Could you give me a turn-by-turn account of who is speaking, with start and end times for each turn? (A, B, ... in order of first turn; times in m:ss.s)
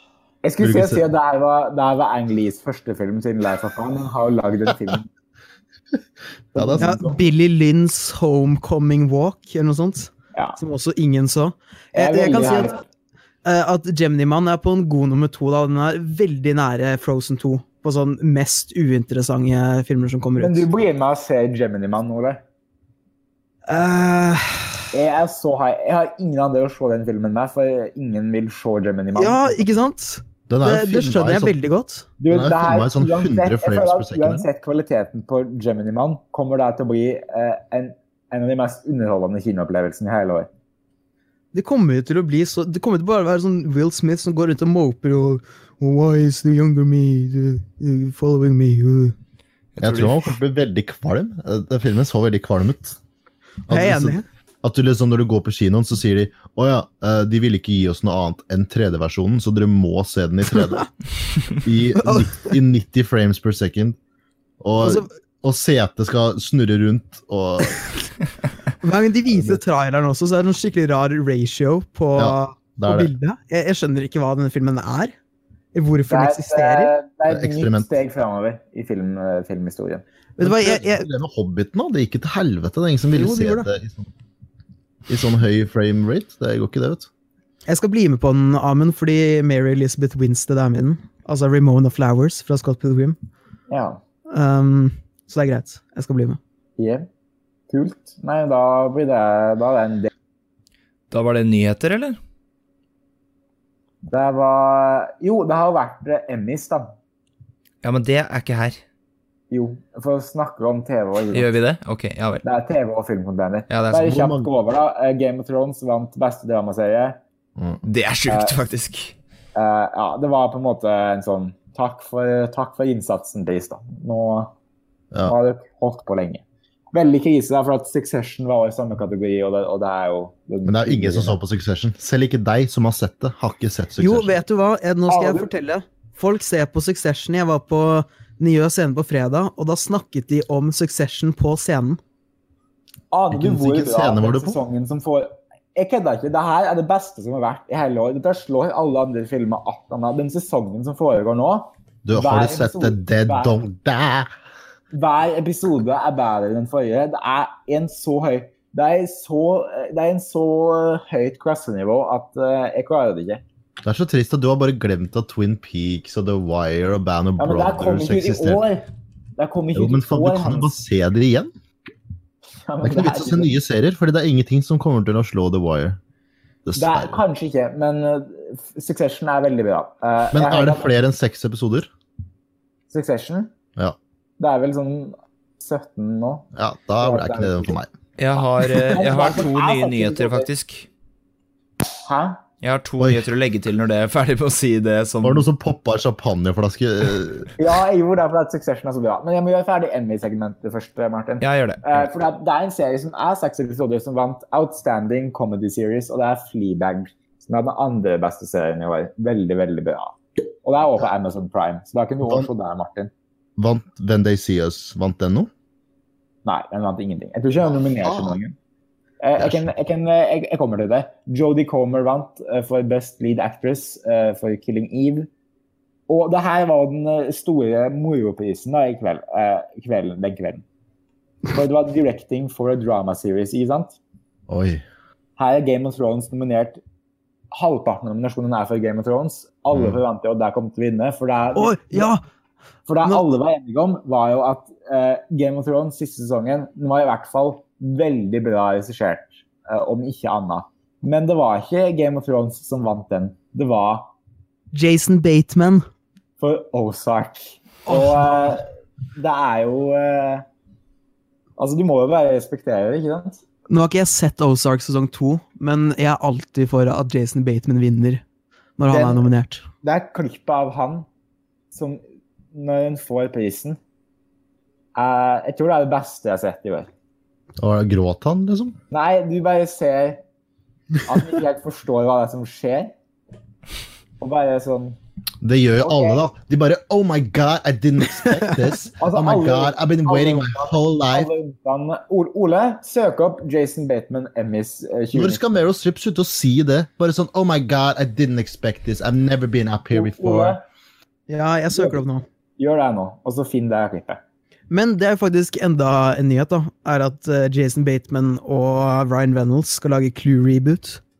0:00.4-0:05.0 A
0:00.6-0:01.0 B
0:06.5-0:06.9 B
0:06.5-0:07.3 A
0:06.8-0:12.8 C
0:11.9-0:12.8 A
0:13.4-0:20.6 C
0:20.4-0:22.4 A
0:23.7-0:24.8 C
0:24.9-0:29.6 A
0:29.1-0:32.1 C
0:30.5-0:31.5 B
0:32.2-0:40.5 A
0:32.3-0:34.4 B
0:41.5-0:49.1 C
0:49.8-0:50.2 D
0:49.8-0:53.0 B
0:53.7-0:54.2 C
0:53.7-1:00.9 B
1:01.5-1:04.0 B
1:02.0-1:02.5 C
1:04.6-1:07.8 B
1:04.8-1:05.1 C
1:08.8-1:15.1 C
1:09.3-1:09.6 B
1:12.1-1:13.1 B
1:15.7-1:16.9 C
1:16.1-1:20.0 A
1:17.3-1:17.9 B
1:20.4-1:21.1 C
1:20.4-1:24.1 B
1:23.1-1:23.7 C
1:25.1-1:27.1 B
1:27.7-1:33.2 C
1:33.7-1:34.0 A
1:34.3-1:36.4 C
1:36.8-1:37.1 A
1:37.7-1:40.1 A
1:41.1-1:42.2 D
1:44.0-1:46.9 A
1:47.8-1:48.8 D
1:49.5-1:51.5 A
1:51.3-1:52.4 D
1:52.4-1:57.2 A
1:53.7-1:54.2 D
1:54.1-1:54.5 B
1:57.6-1:57.8 B
1:57.8-1:59.1 D
1:58.3-1:58.5 A
1:59.5-2:04.5 A
2:05.2-2:11.4 A
2:10.6-2:14.3 B
2:14.0-2:22.0 C
2:15.1-2:15.5 A
2:23.1-2:33.5 A
2:23.3-2:24.6 B
2:32.0-2:34.3 B
2:34.9-2:43.4 A
2:43.8-2:48.6 B
2:47.4-2:50.7 A
2:49.7-2:51.5 B
2:52.6-2:53.5 A
2:52.8-2:56.0 B
2:56.6-2:57.2 B
2:56.8-3:00.9 A
3:00.3-3:01.9 B
3:02.9-3:03.5 A
3:04.4-3:06.5 A
3:06.5-3:07.9 B
3:07.0-3:07.8 A
3:08.2-3:10.9 D
3:08.6-3:10.5 A
3:12.0-3:12.4 A
3:12.6-3:15.5 D
3:13.0-3:13.2 B
3:15.2-3:17.5 B
3:17.6-3:33.1 A
3:21.4-3:21.8 D
3:33.6-3:35.5 B
3:36.4-3:38.5 A
3:38.0-3:38.4 B
3:39.2-3:45.3 A
3:39.4-3:39.7 B
3:46.1-3:50.6 A
3:51.5-3:54.0 A
3:54.5-3:54.8 B
3:55.4-3:56.8 A
3:57.5-4:02.1 A
3:59.7-4:00.0 B
4:01.6-4:02.2 C
4:02.9-4:14.1 A
4:14.7-4:15.8 C
4:16.4-4:20.4 A
4:17.9-4:18.1 C
4:21.6-4:23.4 A
4:23.7-4:28.2 C
4:28.8-4:29.6 C
4:28.9-4:29.3 A
4:29.8-4:31.1 A
4:31.7-4:32.0 A
4:32.5-4:33.8 A
4:34.9-4:36.9 A
4:37.6-4:38.8 B
4:38.9-4:40.2 A
4:41.0-4:42.9 A
4:44.2-4:45.0 A
4:45.4-4:51.3 B
4:45.8-4:46.3 A
4:49.0-4:55.4 A
4:55.1-5:00.6 B
4:59.9-5:00.6 A
5:01.3-5:02.2 C
5:01.7-5:02.0 A
5:02.6-5:04.2 A
5:04.7-5:11.0 C